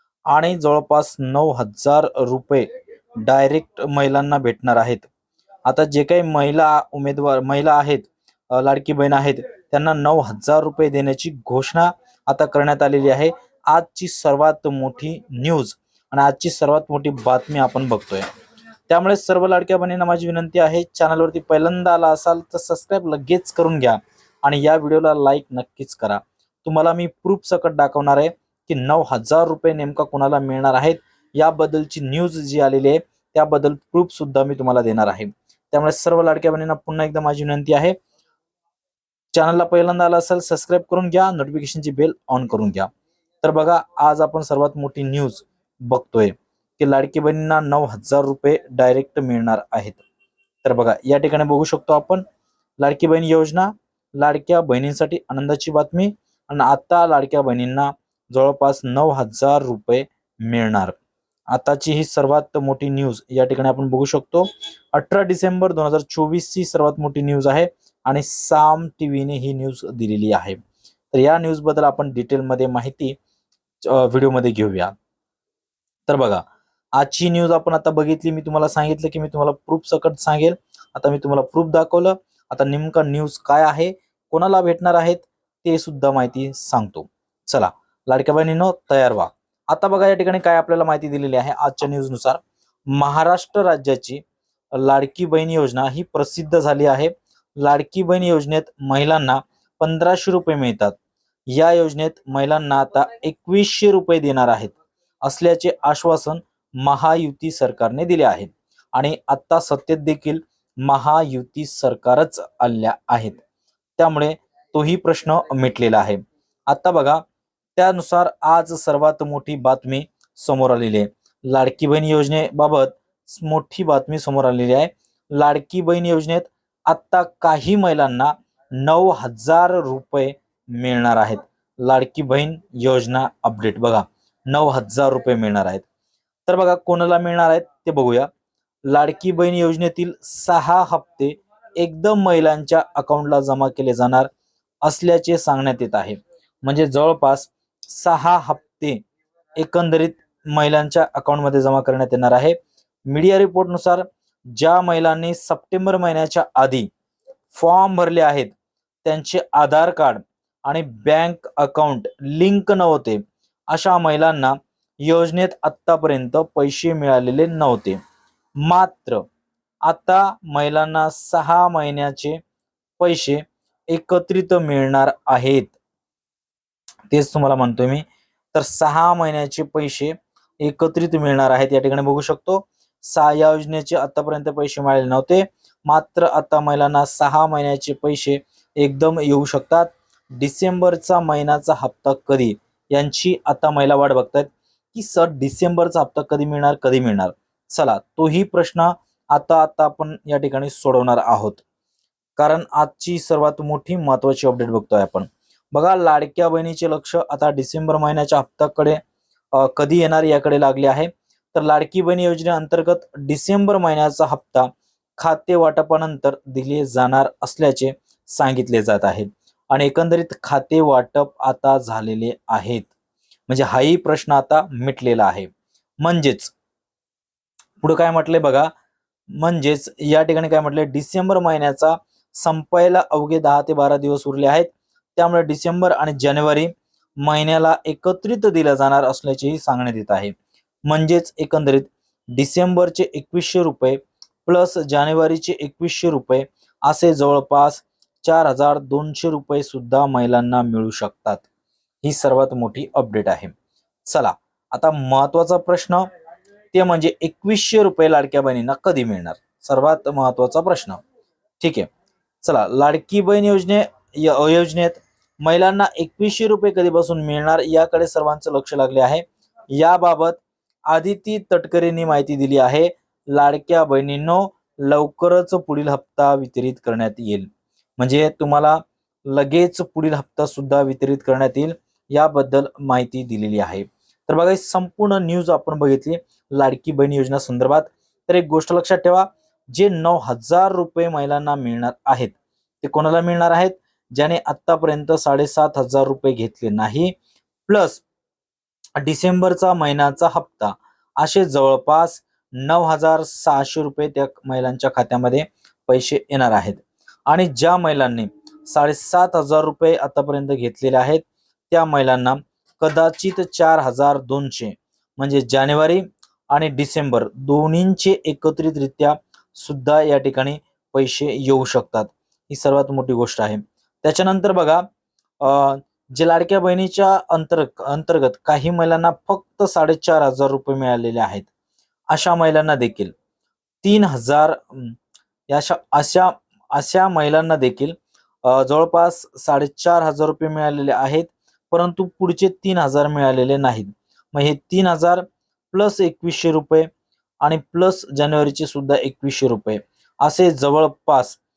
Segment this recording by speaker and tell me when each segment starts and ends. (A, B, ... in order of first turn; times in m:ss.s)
0:00.3-0:02.7 A
0:03.2-0:05.1 A
0:05.6-0:18.3 A
0:18.9-0:38.0 A
0:39.3-0:42.9 A
0:43.4-0:50.0 A
0:50.6-0:52.2 A
0:52.8-1:01.0 A
1:01.5-1:10.6 A
1:11.1-1:13.1 A
1:13.8-1:14.9 A
1:16.1-1:16.4 A
1:17.0-1:34.2 A
1:34.7-1:41.0 A
1:41.5-1:53.4 A
1:54.0-1:57.2 A
1:57.8-2:15.8 A
2:16.5-2:18.3 A
2:18.8-2:24.3 A
2:24.8-2:29.0 A
2:29.6-2:32.6 A
2:33.1-2:36.9 A
2:37.5-2:38.5 A
2:39.0-2:48.0 A
2:48.6-2:49.2 A
2:49.8-2:52.4 A
2:53.0-2:55.8 A
2:57.1-3:21.6 A
3:22.4-3:29.0 A
3:29.5-3:42.9 A
3:43.5-3:45.5 A
3:46.0-3:46.5 A
3:47.8-3:48.7 A
3:49.4-4:00.3 A
4:00.9-4:11.4 A
4:12.0-4:13.5 A
4:14.0-4:16.0 A
4:16.7-4:21.0 A
4:21.6-4:21.9 A
4:22.4-4:57.1 A
4:57.7-4:58.0 A
4:59.0-5:24.8 A
5:25.4-5:31.5 A
5:32.1-5:33.1 A
5:33.8-5:35.0 A
5:35.5-5:46.9 A
5:47.4-5:51.4 A